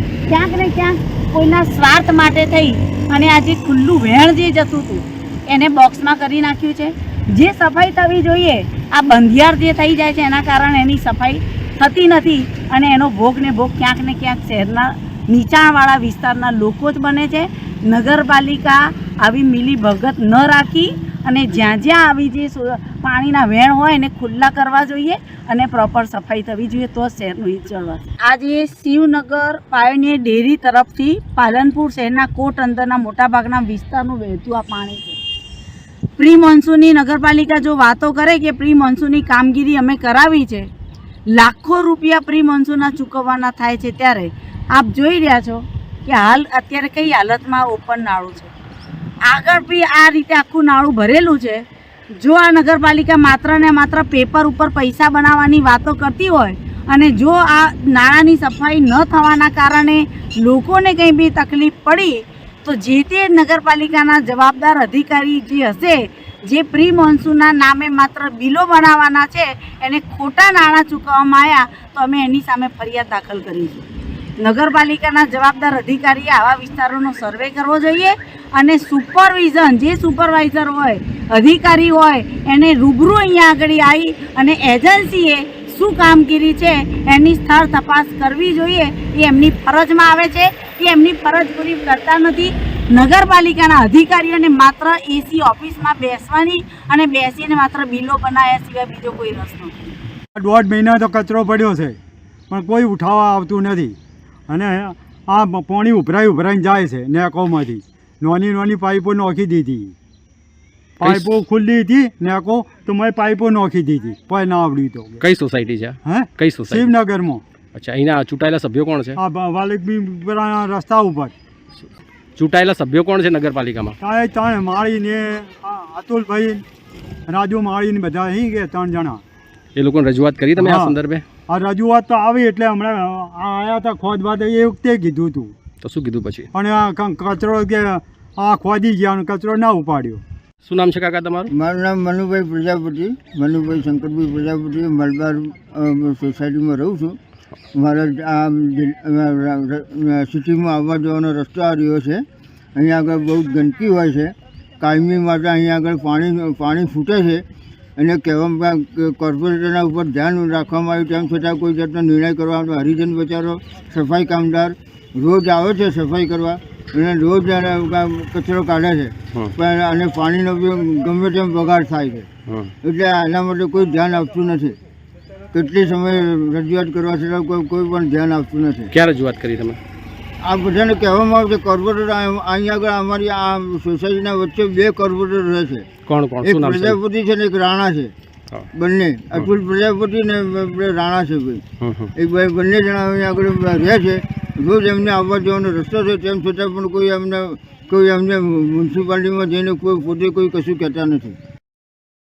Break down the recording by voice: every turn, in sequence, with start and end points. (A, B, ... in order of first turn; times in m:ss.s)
0:00.3-0:35.2 A
0:36.2-0:40.7 A
0:41.3-0:48.5 A
0:49.2-0:51.6 A
0:52.2-1:13.8 A
1:14.4-1:39.9 A
1:40.4-1:42.0 B
1:42.5-1:44.0 B
1:44.5-1:49.9 B
1:51.0-1:51.3 C
1:51.0-1:55.2 B
1:55.2-1:56.9 C
1:56.0-1:57.4 B
1:57.7-1:59.2 C
1:59.2-2:01.3 B
2:02.4-2:04.0 C
2:04.0-2:06.6 B
2:07.3-2:09.2 B
2:09.7-2:11.2 C
2:10.6-2:11.0 B
2:11.5-2:15.5 B
2:15.8-2:16.5 C
2:16.5-2:20.2 B
2:20.6-2:21.5 C
2:21.5-2:27.2 D
2:27.7-2:32.2 D
2:32.7-2:37.4 D
2:38.0-2:52.3 D
2:52.5-2:52.7 C
2:52.8-2:54.8 D
2:55.5-2:58.9 D
2:58.9-2:59.8 C
3:00.4-3:05.8 D
3:06.1-3:07.0 C
3:06.4-3:08.1 D
3:08.7-3:11.6 D
3:11.8-3:12.1 C
3:12.1-3:21.4 D